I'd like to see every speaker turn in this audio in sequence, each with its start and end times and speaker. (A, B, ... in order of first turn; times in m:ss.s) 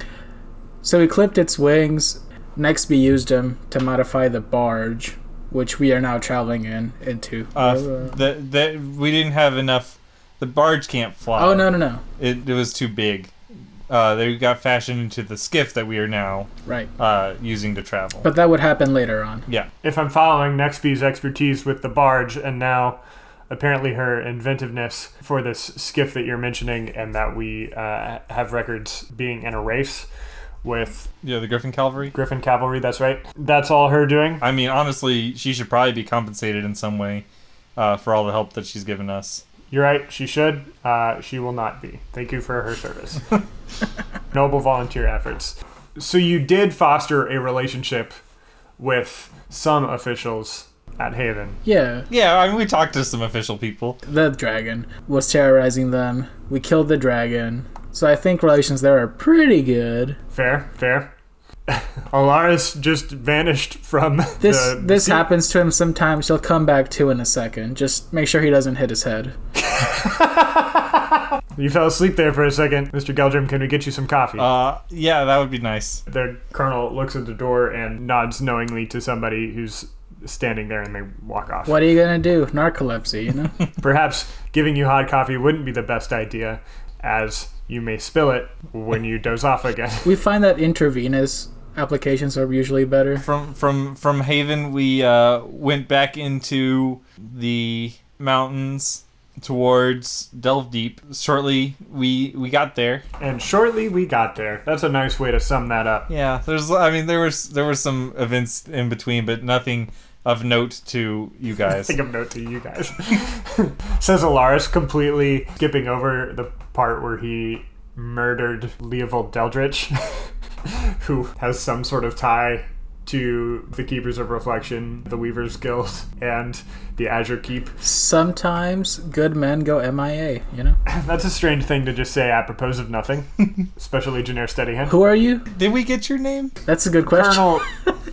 0:00.8-0:08.2 A
0:07.6-0:13.3 B
0:11.4-0:12.0 A
0:13.9-0:18.3 B
0:18.2-0:19.5 A
0:19.8-0:30.1 C
0:30.6-0:31.1 C
0:31.2-0:32.2 B
0:32.1-0:34.4 C
0:34.4-0:39.4 B
0:39.7-0:43.4 C
0:44.3-0:48.2 C
0:48.8-0:51.6 C
0:51.6-0:52.1 A
0:52.1-0:54.0 B
0:54.0-1:00.2 A
1:00.3-1:01.1 C
1:01.7-1:05.3 C
1:04.4-1:09.4 A
1:09.6-1:14.5 C
1:14.4-1:16.0 B
1:16.1-1:21.8 C
1:21.7-1:23.6 A
1:23.8-1:30.1 C
1:30.0-1:33.2 A
1:33.2-1:43.0 B
1:43.2-1:46.1 C
1:46.1-1:52.0 B
1:51.7-2:07.8 C
2:07.8-2:10.8 A
2:10.9-2:15.0 C
2:14.9-2:15.5 A
2:15.5-2:16.6 B
2:16.7-2:17.9 A
2:17.1-2:17.7 C